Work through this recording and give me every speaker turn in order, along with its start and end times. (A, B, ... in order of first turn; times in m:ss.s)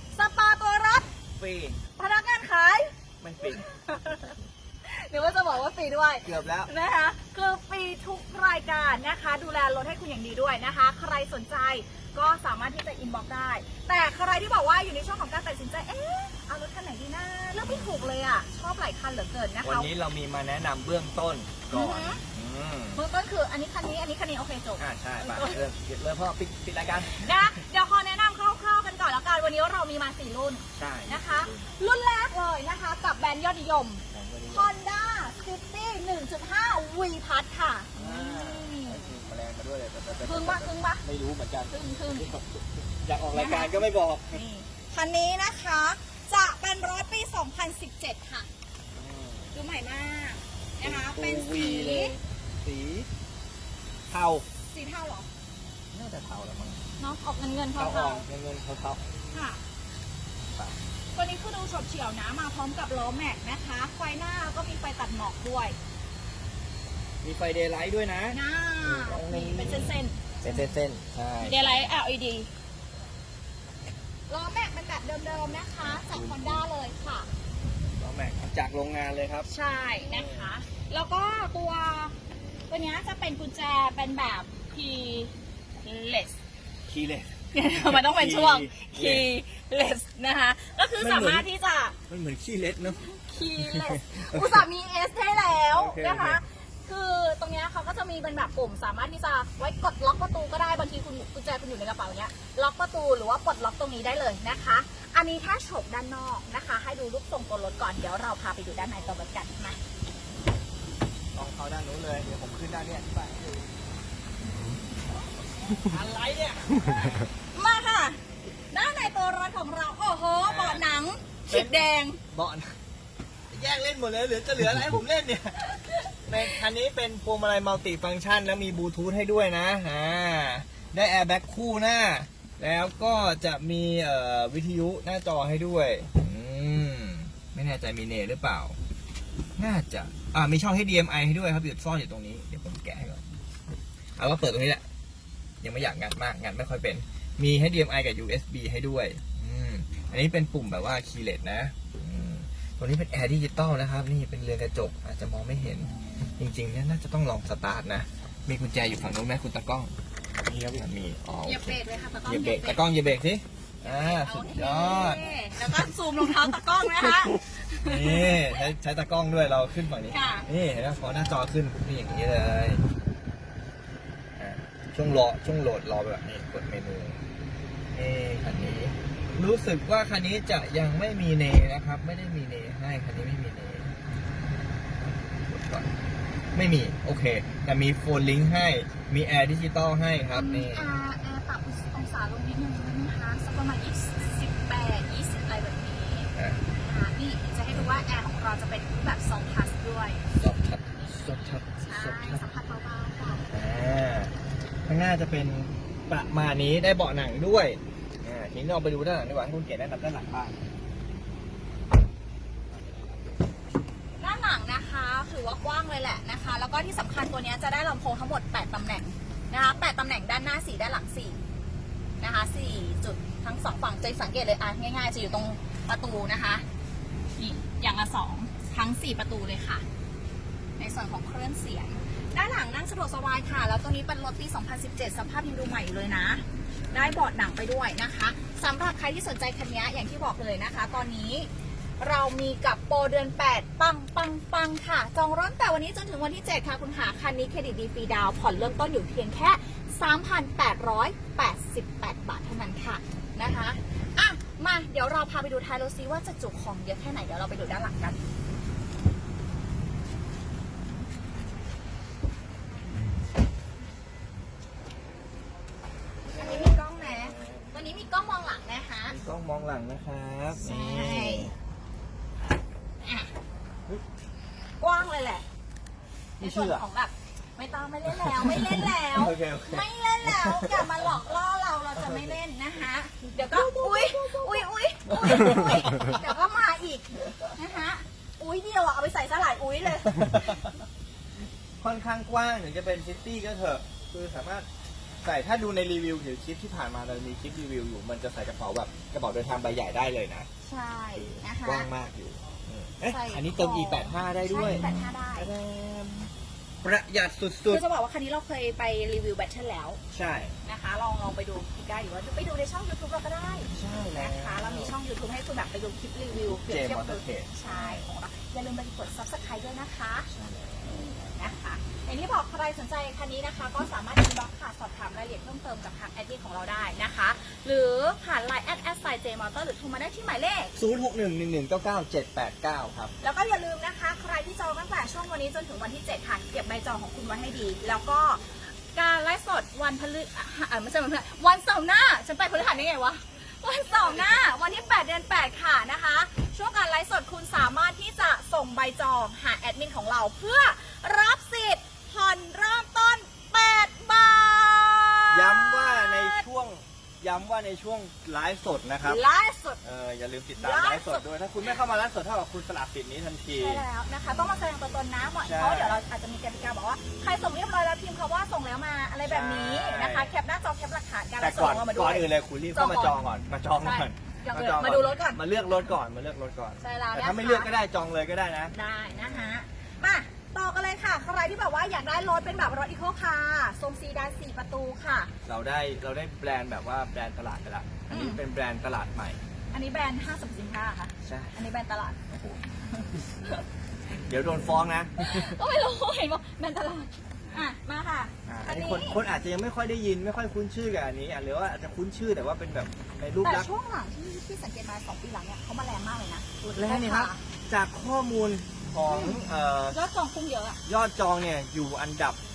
0:00.1-0:01.1 A
0:01.4-0:01.8 B
0:02.0-0:02.9 A
0:03.2-0:03.6 B
0:03.4-0:19.9 A
0:06.2-0:06.7 B
0:17.6-0:18.1 B
0:19.6-0:23.0 B
0:21.7-0:22.2 A
0:23.0-0:25.6 A
0:24.8-0:27.6 B
0:27.1-0:39.1 A
0:30.8-0:31.7 B
0:34.1-0:34.7 B
0:38.0-0:44.4 B
0:40.2-0:41.0 A
0:41.7-0:42.3 A
0:43.3-0:48.5 A
0:48.9-0:49.5 B
0:49.5-0:52.2 A
0:50.8-0:53.1 B
0:54.1-0:54.5 B
0:54.7-0:55.3 A
0:55.9-0:56.8 B
0:57.0-0:58.3 A
0:57.8-0:59.0 B
0:59.3-0:59.6 A
1:00.5-1:00.8 B
1:01.1-1:05.8 A
1:07.2-1:11.8 B
1:08.3-1:10.7 A
1:11.4-1:12.5 A
1:14.3-1:17.3 A
1:15.8-1:16.6 B
1:18.0-1:19.5 B
1:19.5-1:22.2 A
1:20.1-1:20.5 B
1:22.7-1:26.4 A
1:26.9-1:29.3 B
1:27.5-1:32.0 A
1:31.0-1:31.5 B
1:32.1-1:33.0 B
1:32.8-1:49.8 A
1:33.6-1:34.7 B
1:35.7-1:36.4 B
1:51.3-1:53.6 B
1:55.7-1:57.3 B
1:57.5-1:58.2 A
1:58.7-2:02.2 A
2:00.4-2:00.9 B
2:01.5-2:02.8 B
2:03.5-2:05.7 B
2:05.6-2:06.6 A
2:06.3-2:18.8 B
2:19.6-2:23.2 B
2:24.2-2:24.8 B
2:25.6-2:39.9 B
2:40.4-2:45.9 B
2:41.4-2:42.8 A
2:43.8-2:48.6 A
2:47.8-2:52.8 B
2:50.1-2:50.5 A
2:54.4-2:57.2 B
2:57.9-3:04.0 B
3:05.0-3:05.9 B
3:06.5-3:10.9 B
3:10.4-3:20.2 A
3:16.4-3:16.6 B
3:20.4-3:22.4 B
3:21.8-3:23.5 A
3:23.5-3:24.3 B
3:24.9-3:30.6 B
3:34.2-3:41.4 A
3:42.2-3:46.6 A
3:47.4-3:49.8 A
3:50.8-4:01.5 A
3:56.8-3:57.2 B
4:02.0-4:18.2 A
4:26.3-4:27.6 B
4:26.4-4:29.2 A
4:29.1-4:31.6 B
4:30.5-4:31.5 A
4:33.0-4:33.3 A
4:34.8-4:35.4 A
4:36.4-4:36.8 B
4:36.4-4:50.7 A
4:38.1-4:41.1 B
4:42.0-4:42.4 B
4:43.3-4:46.2 B
4:47.2-4:47.5 B
4:50.1-4:50.7 B
4:51.8-4:54.7 B
4:55.2-5:00.5 B
5:00.6-5:01.9 A
5:01.2-5:06.3 B
5:03.1-5:05.5 A
5:06.8-5:07.8 B
5:07.7-5:10.0 A
5:10.1-5:10.6 B
5:10.6-5:20.3 A
5:13.7-5:15.0 B
5:16.3-5:18.1 B
5:20.3-5:21.1 B
5:21.2-5:30.8 A
5:30.8-5:33.1 B
5:33.2-5:56.5 A
5:55.3-5:59.2 B
5:59.0-5:59.8 A
5:59.8-6:03.8 B
6:00.6-6:01.3 A
6:03.5-6:13.2 A
6:05.4-6:06.0 B
6:09.2-6:10.3 B
6:11.4-6:19.6 B
6:13.8-6:15.4 A
6:16.8-6:17.7 A
6:18.7-6:25.3 A
6:25.5-6:29.4 B
6:28.1-6:28.4 A
6:29.7-6:32.2 A
6:31.2-6:31.6 B
6:32.3-6:32.6 B
6:32.8-6:33.6 A
6:34.3-6:35.6 B
6:35.2-6:39.2 A
6:38.5-6:43.7 B
6:43.4-6:47.4 A
6:46.8-6:50.0 B
6:49.1-6:50.8 A
6:50.9-6:52.4 B